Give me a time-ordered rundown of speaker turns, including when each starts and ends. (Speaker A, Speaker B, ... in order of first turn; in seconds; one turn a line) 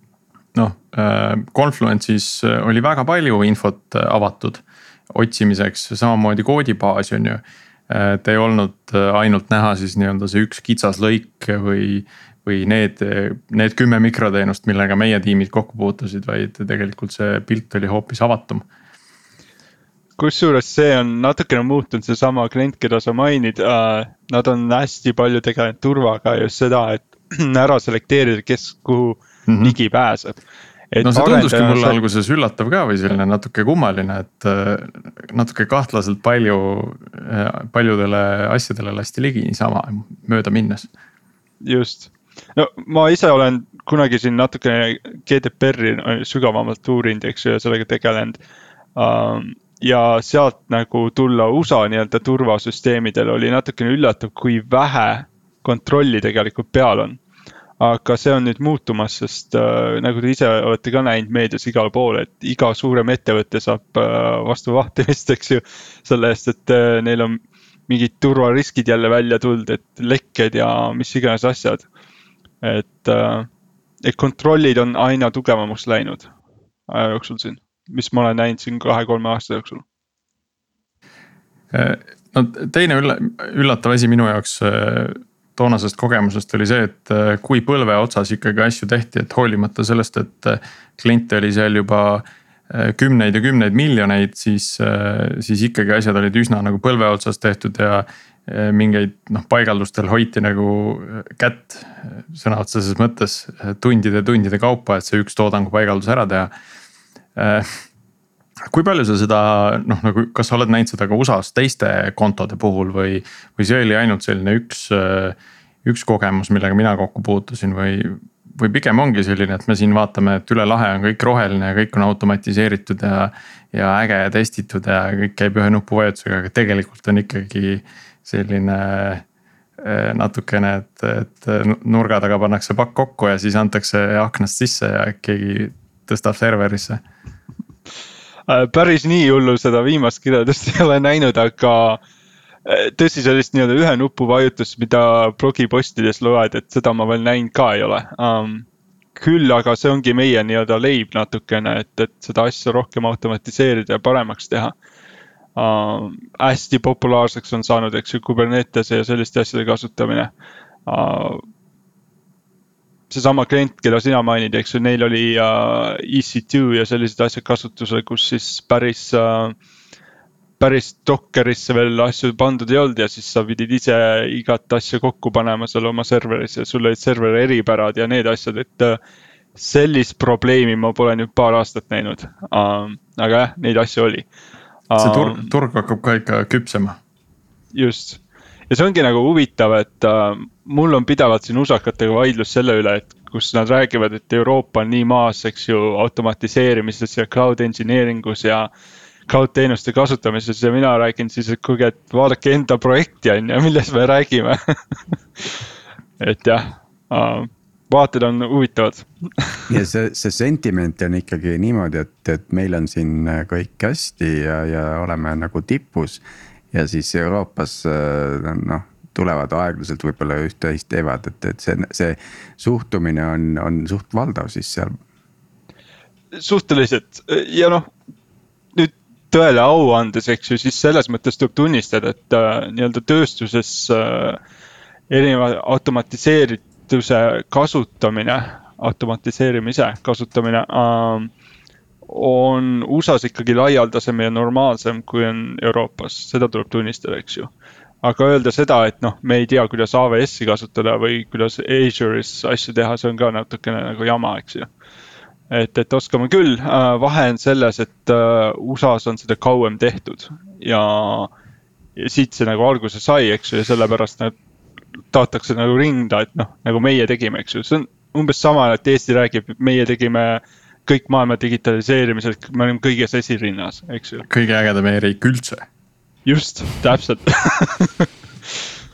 Speaker A: 0.6-18.6
Speaker B: 20.2-30.4
Speaker A: 29.5-29.8
Speaker B: 30.9-32.0
Speaker A: 31.0-40.9
Speaker B: 41.6-48.4
Speaker B: 49.0-57.2
Speaker B: 57.8-71.8
Speaker B: 72.6-73.5
Speaker B: 74.0-76.3
Speaker B: 76.9-79.8
Speaker A: 81.7-106.5
Speaker A: 107.4-107.7
Speaker A: 108.7-129.2
Speaker A: 129.8-137.0
Speaker B: 138.5-142.0
Speaker B: 142.7-154.7
Speaker B: 155.6-160.3
Speaker B: 160.9-161.4
Speaker B: 163.1-169.6
Speaker B: 170.6-179.0
Speaker B: 179.6-184.3
Speaker B: 184.9-185.5
Speaker A: 185.0-187.0
Speaker B: 187.7-198.7
Speaker B: 199.3-205.6
Speaker B: 206.2-209.6
Speaker C: 209.7-225.0
Speaker B: 226.3-227.9
Speaker B: 228.7-234.4
Speaker B: 235.1-241.3
Speaker B: 242.1-247.5
Speaker B: 248.0-254.7
Speaker B: 255.5-261.3
Speaker B: 262.0-264.3
Speaker B: 265.1-274.2
Speaker A: 274.3-275.6
Speaker B: 276.2-278.1